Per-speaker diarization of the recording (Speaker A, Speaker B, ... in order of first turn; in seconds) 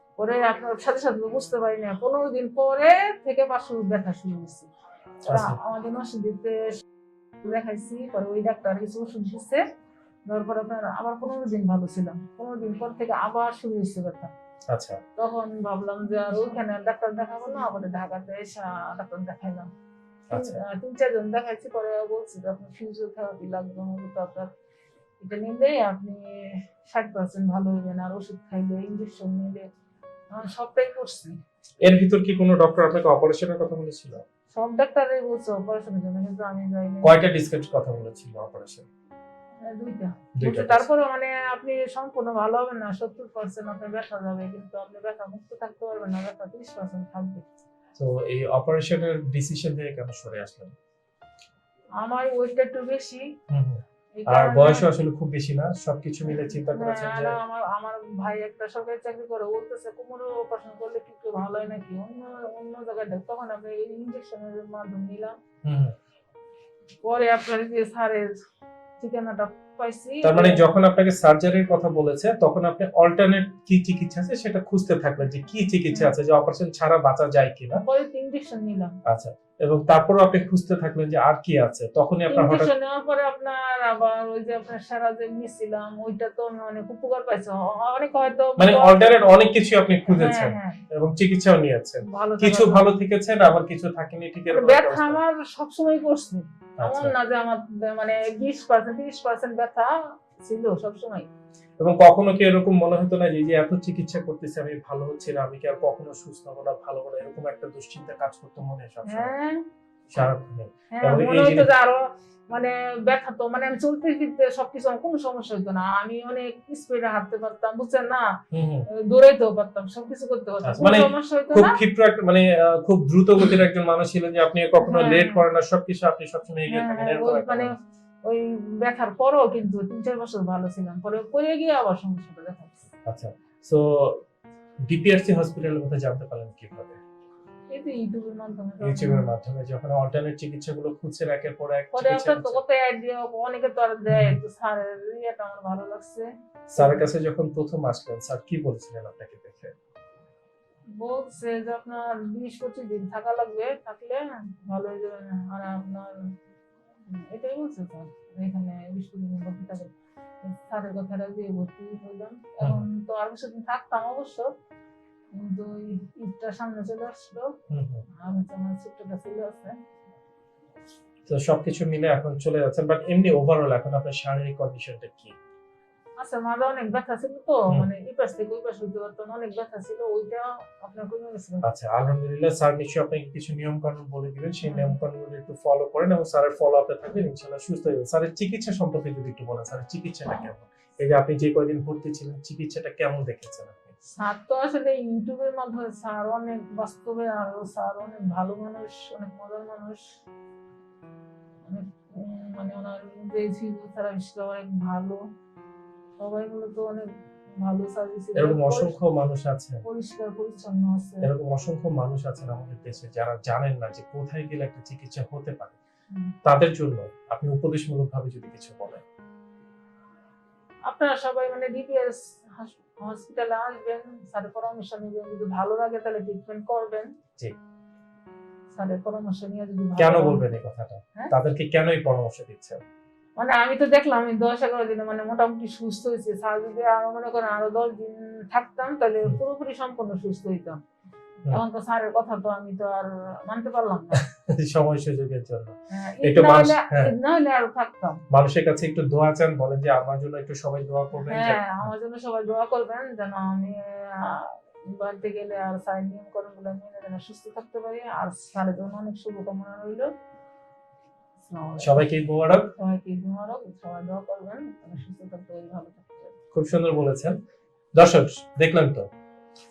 Speaker A: 0.2-4.7, 5.3-6.8, 7.4-9.6, 10.3-14.3, 15.2-19.7, 20.3-24.5, 25.2-29.7, 30.3-31.4, 34.5-37.1, 39.6-47.4, 52.0-53.3, 54.1-54.9, 56.3-65.3, 67.0-68.3, 69.0-70.6, 77.8-79.0, 82.3-89.3, 90.1-90.8, 92.1-92.8, 94.5-101.3, 109.1-109.6, 110.9-118.3, 118.9-121.8, 124.8-125.4, 126.7-127.7, 128.2-132.9, 137.7-139.3, 141.9-147.0, 150.9-156.3, 157.1-164.5, 165.3-167.5, 168.2-169.8, 176.2-181.6, 184.6-184.9, 194.1-200.0, 201.7-205.2, 206.2-208.9, 209.8-211.3, 220.9-227.1, 228.7-230.4, 233.4-240.8, 241.5-244.2, 245.9-248.2, 251.2-260.1, 261.4-262.1, 262.6-266.3
Speaker B: 5.3-5.5, 14.7-15.0, 20.3-20.6, 31.8-34.2, 37.0-38.9, 40.4-40.9, 48.0-50.7, 53.5-57.4, 65.6-65.9, 70.2-77.8, 79.1-82.7, 88.6-95.2, 96.8-97.1, 101.8-109.3, 110.1-111.7, 118.5-118.9, 120.6-127.7, 133.1-134.2, 134.8-137.0, 138.8-142.6, 144.1-144.4, 146.8-149.7, 162.6-162.8, 167.7-168.0, 171.3-175.3, 181.6-193.9, 208.3-209.8, 211.2-215.8, 216.4-219.0, 230.0-232.8, 244.2-247.1, 248.3-251.9, 261.8-262.7, 266.5-267.4, 267.9-269.1